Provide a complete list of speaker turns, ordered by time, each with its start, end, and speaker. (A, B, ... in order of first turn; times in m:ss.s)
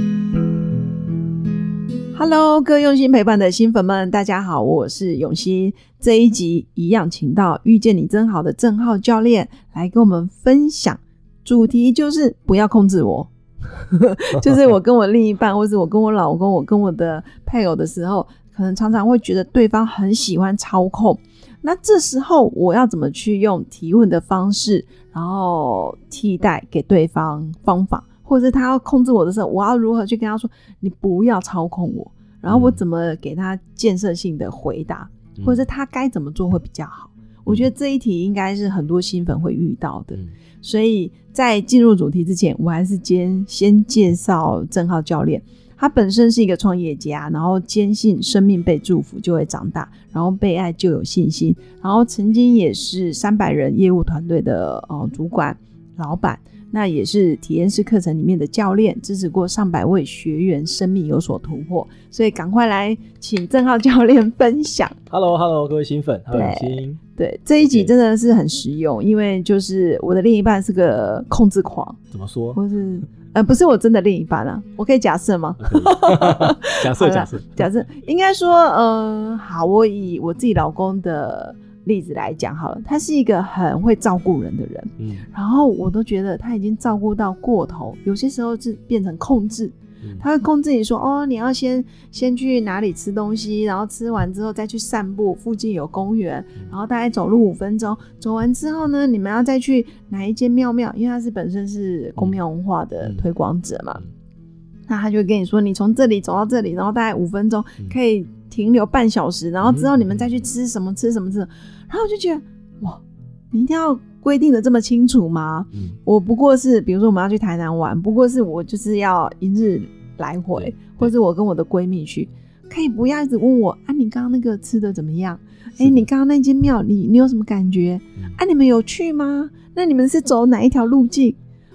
0:02.1-1:05.0 A
0:32.5-0:32.8 B
0:35.4-0:35.6 B
1:05.1-1:07.0 B
1:06.3-1:12.0 A
1:07.6-1:07.9 B
1:12.1-1:12.6 B
1:12.6-1:44.0 A
1:15.6-1:17.7 B
1:25.0-1:25.3 B
1:44.9-2:11.4 A
1:49.6-1:50.3 B
1:55.7-1:56.0 B
2:00.6-2:01.1 B
2:05.8-2:06.1 B